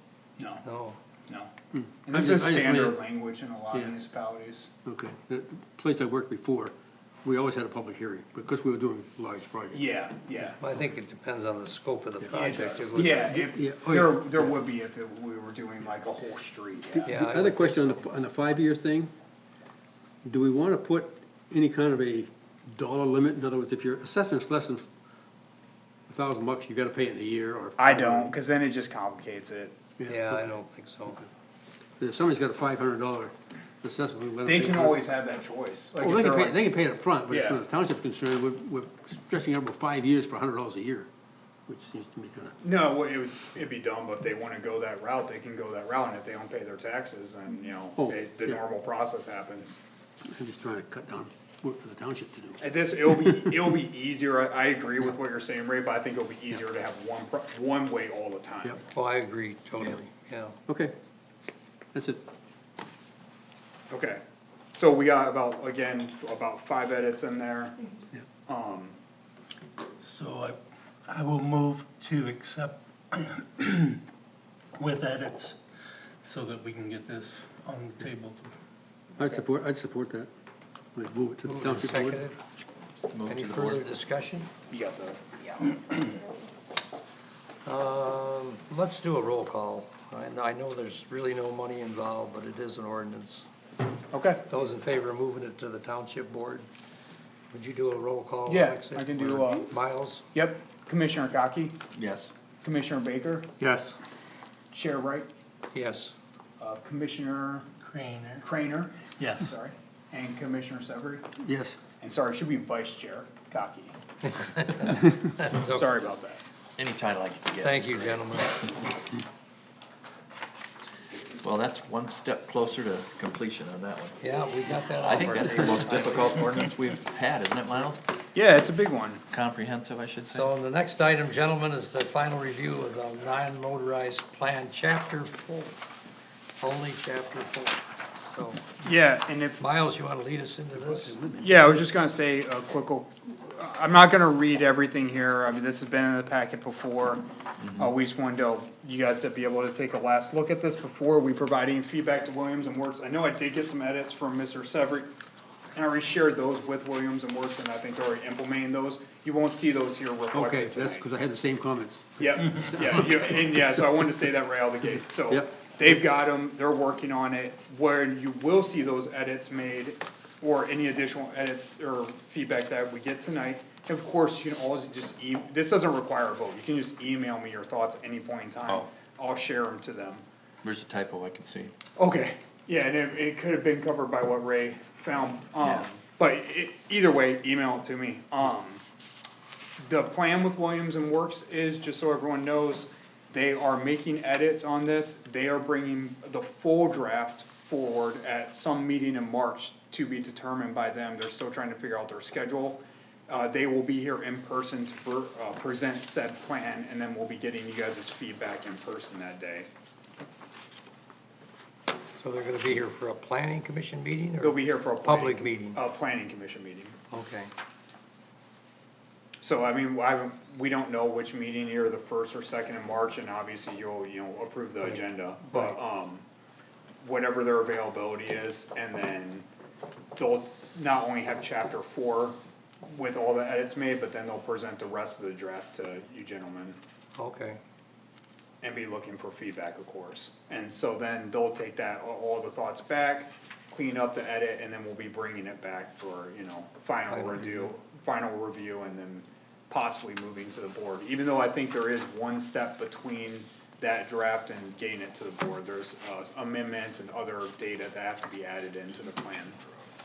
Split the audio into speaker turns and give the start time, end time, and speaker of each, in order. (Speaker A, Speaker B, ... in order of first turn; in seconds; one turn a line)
Speaker A: 0.4-0.6
Speaker B: 0.6-1.0
Speaker C: 1.7-3.0
Speaker A: 2.0-4.7
Speaker C: 4.8-9.9
Speaker A: 9.7-10.6
Speaker B: 10.6-13.4
Speaker A: 12.3-17.1
Speaker C: 13.0-14.6
Speaker C: 17.0-19.1
Speaker B: 17.1-18.1
Speaker C: 20.2-24.9
Speaker C: 26.1-28.3
Speaker A: 27.8-29.8
Speaker C: 30.0-30.5
Speaker B: 30.1-31.3
Speaker C: 32.0-35.0
Speaker A: 34.4-36.6
Speaker C: 36.0-41.1
Speaker A: 37.3-37.6
Speaker C: 41.7-42.6
Speaker A: 42.6-49.8
Speaker C: 48.0-48.6
Speaker C: 50.2-53.5
Speaker A: 52.6-58.8
Speaker B: 58.9-60.5
Speaker C: 60.7-60.9
Speaker C: 61.9-62.2
Speaker A: 63.9-64.2
Speaker A: 64.7-67.8
Speaker A: 68.5-68.9
Speaker D: 70.0-74.0
Speaker D: 74.8-75.6
Speaker D: 76.2-78.5
Speaker C: 79.2-80.3
Speaker C: 80.9-82.2
Speaker B: 81.4-82.4
Speaker E: 83.1-83.9
Speaker B: 83.2-84.5
Speaker A: 84.7-85.2
Speaker B: 87.6-93.5
Speaker A: 94.1-94.4
Speaker B: 94.5-96.7
Speaker B: 97.5-100.2
Speaker A: 98.5-99.7
Speaker A: 100.3-101.8
Speaker E: 101.9-102.3
Speaker A: 102.6-103.5
Speaker C: 103.6-104.0
Speaker A: 104.7-105.3
Speaker B: 105.7-106.1
Speaker A: 106.6-107.7
Speaker D: 107.8-108.5
Speaker A: 108.4-111.2
Speaker C: 111.4-111.8
Speaker A: 112.0-114.0
Speaker B: 114.3-115.8
Speaker A: 115.1-116.4
Speaker E: 116.8-118.8
Speaker B: 117.6-118.8
Speaker E: 121.4-124.2
Speaker B: 124.2-126.6
Speaker E: 125.0-128.1
Speaker A: 128.3-129.2
Speaker E: 129.3-130.5
Speaker B: 130.3-135.7
Speaker B: 136.6-138.6
Speaker A: 138.8-139.6
Speaker B: 139.6-141.2
Speaker C: 140.8-141.7
Speaker A: 141.4-147.2
Speaker E: 147.6-147.9
Speaker A: 147.8-155.1
Speaker A: 155.7-161.1
Speaker C: 160.3-163.5
Speaker A: 162.2-180.2
Speaker E: 180.6-181.7
Speaker A: 181.9-188.8
Speaker E: 185.6-185.9
Speaker A: 189.8-209.7
Speaker B: 212.1-215.8
Speaker A: 214.4-216.9
Speaker B: 217.1-217.5
Speaker A: 219.4-226.2
Speaker B: 224.8-225.8
Speaker A: 227.0-229.4
Speaker A: 230.2-232.4
Speaker A: 232.9-236.8
Speaker B: 237.2-237.6
Speaker A: 238.6-259.6
Speaker B: 247.1-247.7